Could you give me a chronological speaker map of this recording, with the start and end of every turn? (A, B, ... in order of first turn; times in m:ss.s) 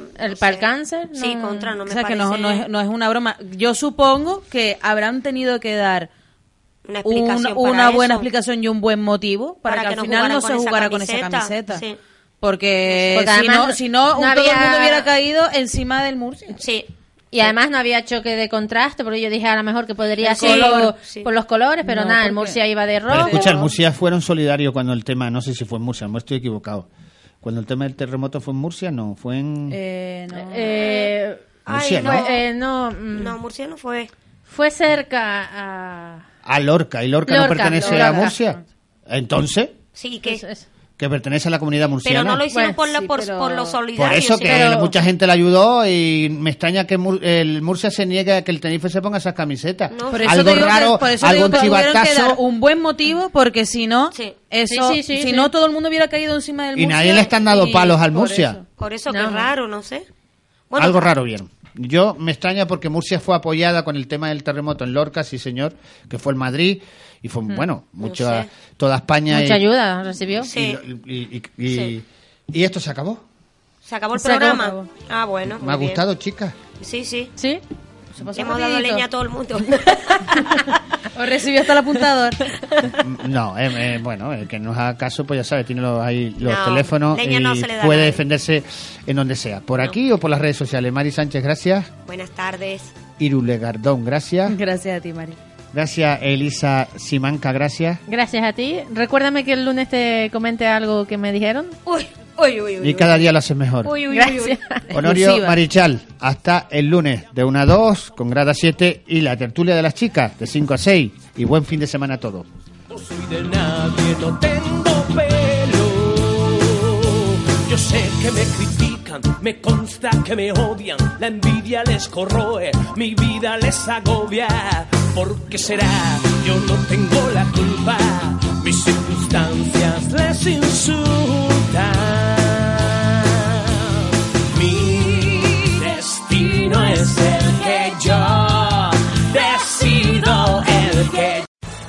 0:00.2-0:01.7 A
0:00.3-0:02.7 B
0:01.9-0:06.1 C
0:06.9-0:08.3 B
0:07.0-0:11.8 C
0:09.7-0:12.0 B
0:12.4-0:16.6 C
0:12.9-0:13.2 B
0:13.1-0:15.1 A
0:16.6-0:16.9 B
0:17.3-0:23.6 A
0:20.2-0:21.3 B
0:20.4-0:21.0 C
0:21.8-0:23.7 C
0:23.1-0:26.9 D
0:27.4-0:29.8 D
0:29.7-0:31.0 C
0:30.3-0:31.4 A
0:31.7-0:32.4 B
0:31.7-0:32.3 D
0:32.0-0:33.4 A
0:33.1-0:34.1 B
0:34.5-0:36.2 A
0:36.4-0:39.8 D
0:37.3-0:38.3 A
0:40.0-0:40.4 B
0:40.3-0:40.6 A
0:41.0-0:42.4 D
0:42.0-0:44.7 B
0:42.5-0:43.8 A
0:44.0-0:52.4 D
0:44.4-0:44.9 A
0:49.9-0:50.8 B
0:50.1-0:58.6 C
0:54.7-0:55.5 A
0:56.8-0:58.6 D
0:58.8-1:00.1 B
0:59.1-0:59.5 A
1:00.7-1:01.1 B
1:00.8-1:09.7 D
1:08.0-1:08.5 B
1:09.3-1:10.5 A
1:10.3-1:13.2 D
1:10.4-1:10.8 B
1:13.8-1:16.0 B
1:14.1-1:14.8 A
1:15.6-1:16.6 D
1:16.8-1:17.3 B
1:17.4-1:17.6 A
1:18.2-1:19.0 C
1:18.3-1:20.6 B
1:21.1-1:22.5 C
1:23.0-1:31.9 D
1:26.4-1:28.2 B
1:32.1-1:33.0 B
1:33.2-1:34.6 D
1:34.5-1:35.4 C
1:35.7-1:38.0 D
1:38.1-1:41.7 A
1:41.9-1:43.2 B
1:42.8-1:44.0 D
1:43.8-1:44.6 B
1:44.1-1:44.8 A
1:44.9-1:45.6 C
1:44.9-1:52.4 D
1:52.9-2:21.4 E